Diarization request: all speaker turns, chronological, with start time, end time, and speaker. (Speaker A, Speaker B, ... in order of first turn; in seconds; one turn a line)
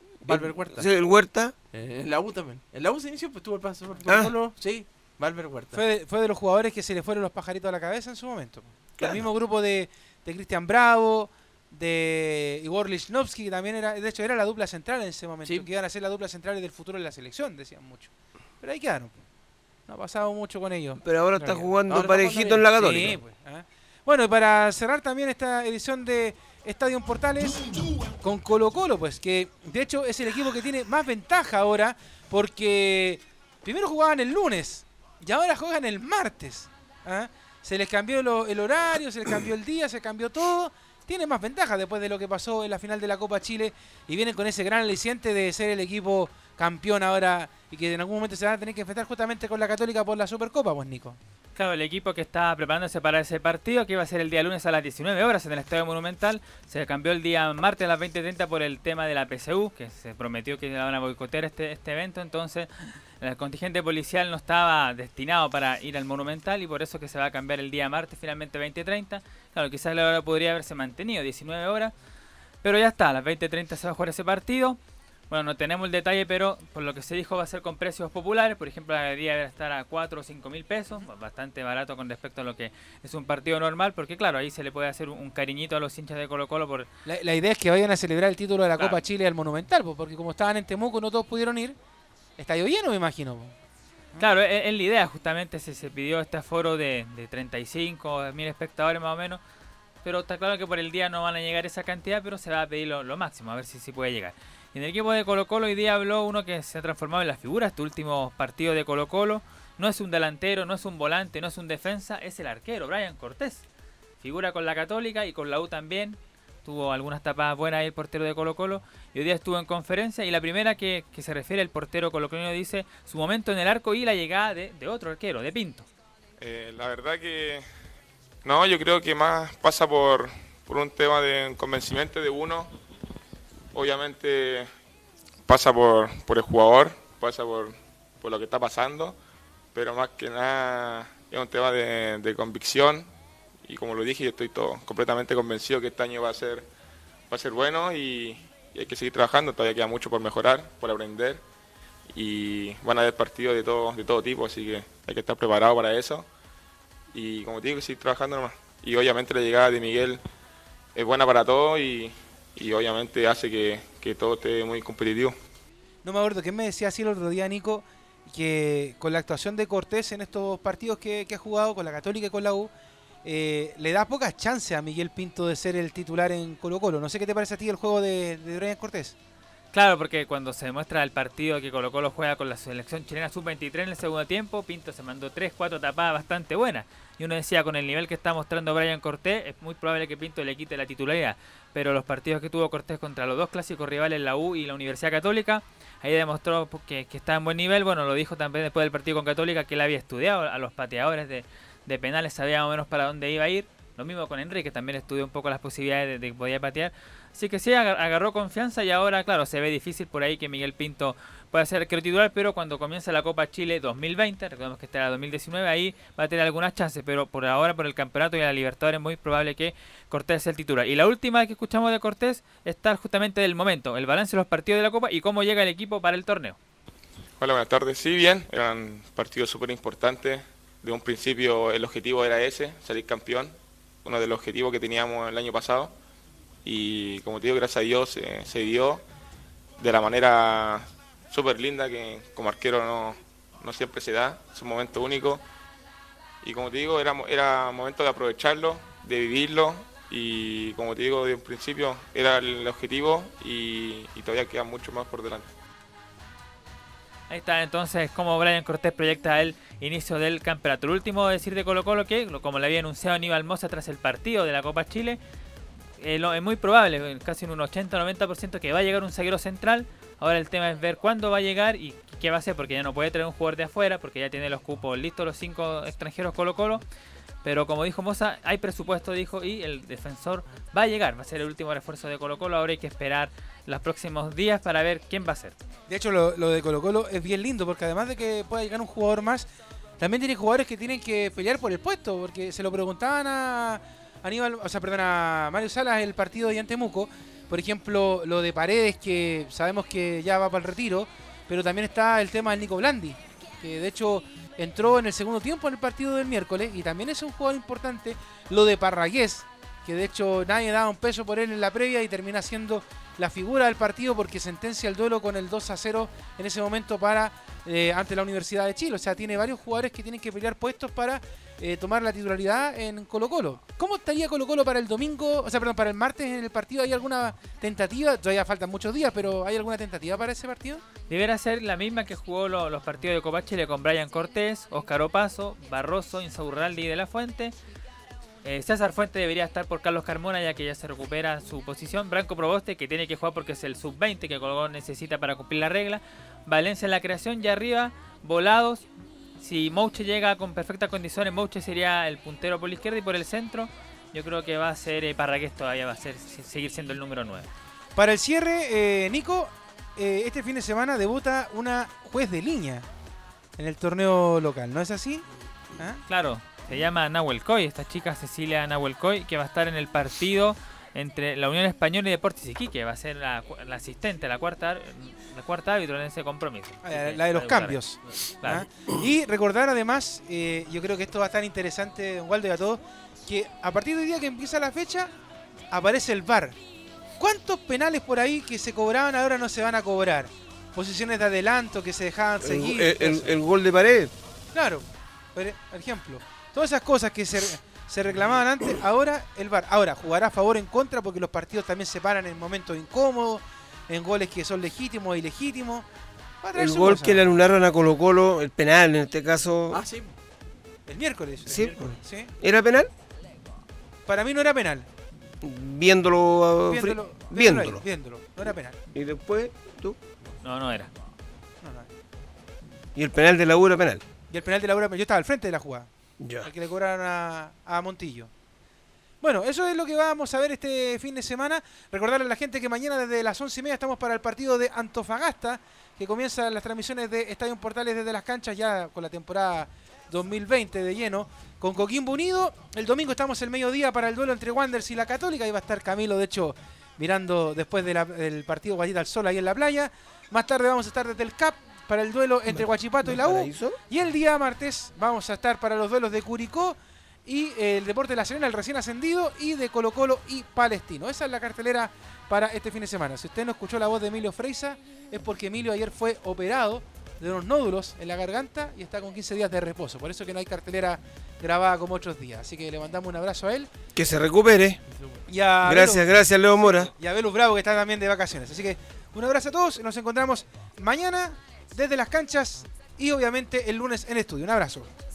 Speaker A: 0.2-1.5
Speaker B: 0.3-0.9
Speaker B: 1.7-5.8
Speaker A: 4.1-4.3
Speaker C: 5.7-18.1
Speaker A: 9.0-9.3
Speaker C: 18.6-19.2
Speaker C: 19.9-21.6
Speaker A: 21.0-23.2
Speaker B: 21.9-22.6
Speaker C: 22.8-51.2
Speaker D: 51.5-62.7
Speaker D: 63.2-71.9
Speaker D: 72.6-74.8
Speaker D: 75.3-86.9
Speaker C: 87.1-91.8
Speaker C: 92.4-93.5
Speaker D: 94.2-99.4
Speaker D: 100.0-113.7
Speaker D: 114.2-125.9
Speaker E: 126.4-127.6
Speaker E: 128.4-132.7
Speaker E: 133.7-134.7
Speaker E: 135.5-139.2
Speaker E: 139.7-143.1
Speaker E: 143.7-146.7
Speaker E: 147.3-151.4
Speaker E: 152.1-156.3
Speaker E: 157.1-160.2
Speaker E: 160.9-165.3
Speaker C: 166.0-172.7
Speaker C: 173.2-179.2
Speaker D: 179.7-226.6
Speaker E: 227.4-235.9
Speaker E: 236.7-239.0
Speaker E: 239.8-245.4
Speaker E: 246.4-255.5
Speaker D: 257.3-265.2
Speaker D: 266.0-276.8
Speaker D: 277.4-285.6
Speaker C: 285.9-289.5
Speaker C: 290.0-330.8
Speaker D: 331.1-337.6
Speaker D: 338.4-348.9
Speaker D: 349.4-357.5
Speaker C: 357.9-362.9
Speaker C: 363.6-365.2
Speaker D: 366.1-377.8
Speaker C: 376.8-385.1
Speaker D: 378.4-378.7
Speaker C: 385.7-386.6
Speaker C: 387.2-393.4
Speaker A: 392.4-394.1
Speaker C: 394.5-405.9
Speaker C: 406.4-407.2
Speaker A: 406.6-409.8
Speaker B: 409.7-410.1
Speaker C: 410.9-412.3
Speaker A: 411.5-412.9
Speaker C: 414.1-414.9
Speaker A: 415.4-417.8
Speaker C: 416.7-418.8
Speaker A: 418.9-420.0
Speaker D: 420.4-420.9
Speaker C: 421.6-421.9
Speaker A: 422.9-424.0
Speaker C: 424.3-425.9
Speaker A: 426.2-426.5
Speaker C: 426.4-428.3
Speaker C: 429.2-473.7
Speaker A: 452.5-453.8
Speaker A: 474.0-474.8
Speaker C: 475.3-484.9
Speaker A: 475.6-476.9